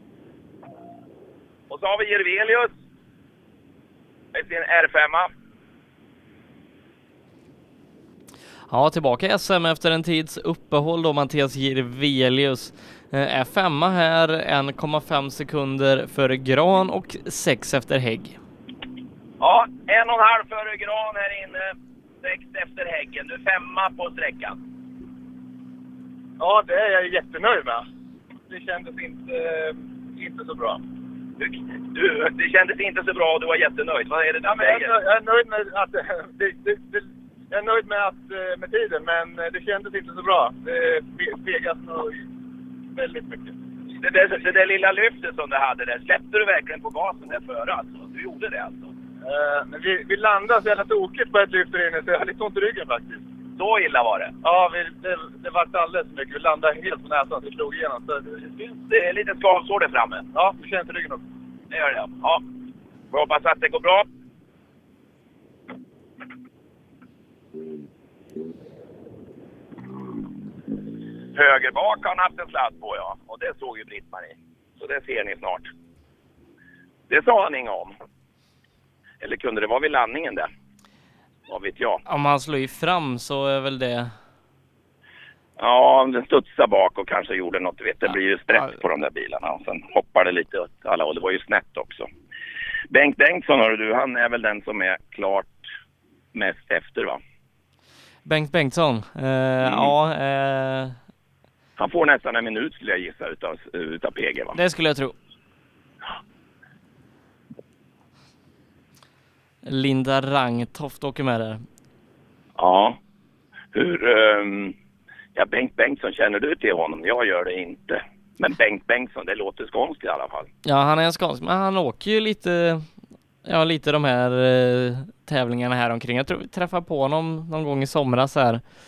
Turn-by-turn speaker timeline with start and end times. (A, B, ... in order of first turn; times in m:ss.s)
0:01.7-0:02.7 A
0:04.3-0:05.3 A
0:08.7-0:18.4 B
0:19.4-0:24.6 A
0:26.4-0:27.8 C
0:28.5-0:30.8 C
0:31.4-0:35.0 A
0:34.4-0:42.2 C
0:43.0-0:43.5 C
0:44.0-0:48.9 A
0:49.2-0:53.2 C
0:53.6-0:54.3 A
0:54.4-0:58.5 C
0:58.8-1:00.2 A
1:00.4-1:01.2 C
1:01.7-1:02.4 A
1:03.1-1:04.1 A
1:11.3-1:15.7 A
1:17.1-1:18.0 A
1:19.2-1:20.5 A
1:21.5-1:22.0 A
1:22.0-1:24.1 B
1:25.6-1:32.1 A
1:32.9-1:35.6 A
1:36.3-1:37.2 A
1:38.2-1:41.0 B
1:39.6-1:39.9 A
1:41.8-1:44.6 A
1:44.5-1:45.1 B
1:49.6-1:51.6 B
1:52.6-1:53.0 A
1:53.7-1:54.7 A
1:55.4-2:00.5 A
2:00.6-2:02.9 B
2:03.4-2:08.6 B